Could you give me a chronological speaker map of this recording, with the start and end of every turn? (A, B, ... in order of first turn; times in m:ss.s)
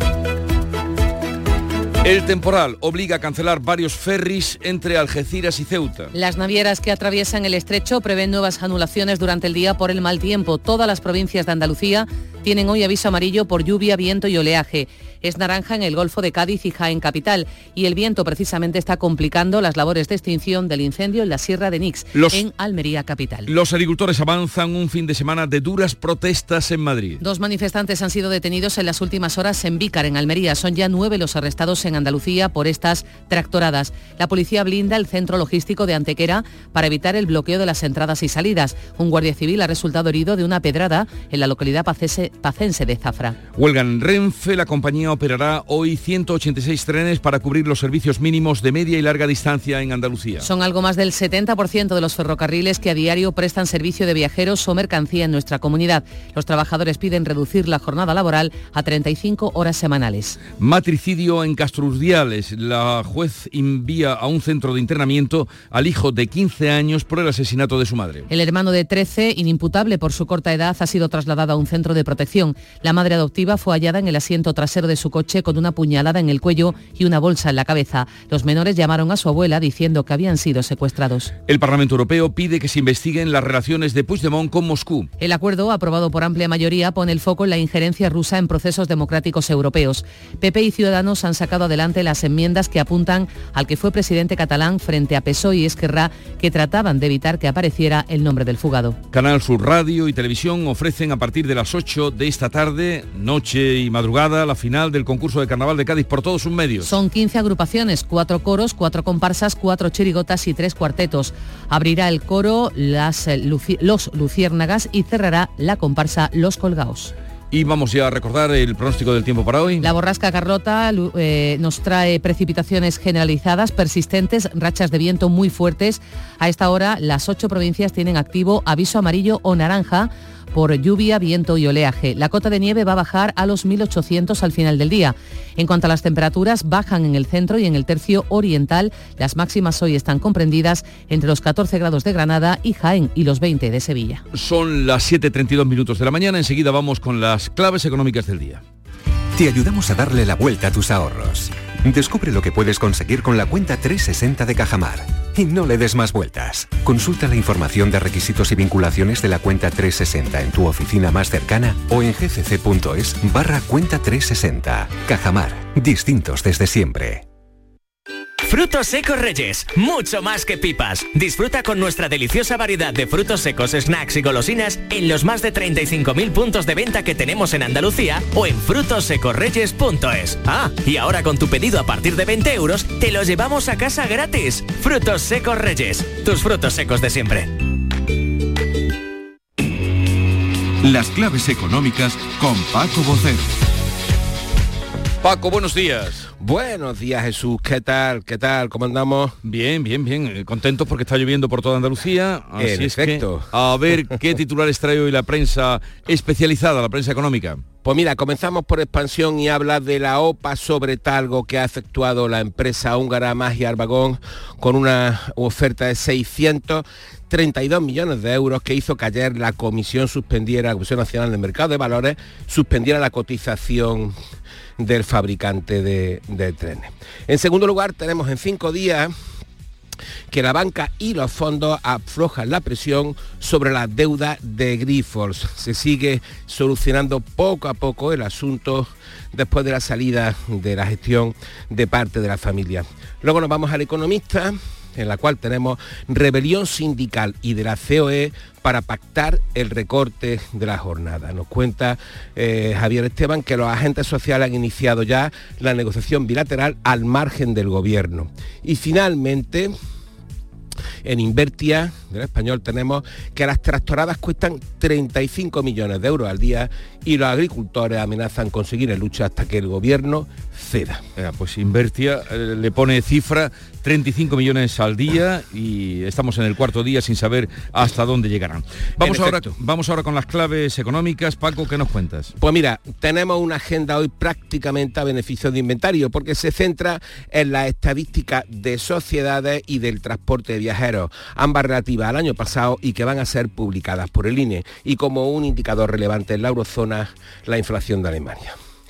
0:02.0-0:06.1 A
0:06.1-0:23.5 B
0:22.1-0:22.4 A
0:23.5-0:27.2 A
0:27.2-0:43.4 B
0:43.6-0:50.5 A
0:50.4-1:00.4 B
1:00.6-1:08.2 A
1:08.3-1:21.3 B
1:21.5-1:25.1 A
1:25.2-1:39.0 B
1:39.1-1:46.9 A
1:46.8-1:57.1 B
1:57.5-1:59.9 A
1:59.8-2:24.2 B
2:24.3-2:28.6 A
2:29.4-2:47.1 C
2:48.5-3:07.5 D
3:10.8-3:13.4 E
3:15.2-3:16.2 A
3:16.4-3:19.3 F
3:19.4-3:27.6 A
3:22.6-3:23.5 F
3:27.8-3:44.1 F
3:44.8-3:49.1 F
3:50.3-4:19.7 F
4:21.0-4:31.0 F
4:31.2-4:42.3 A
4:39.0-4:39.5 F
4:42.4-4:58.6 F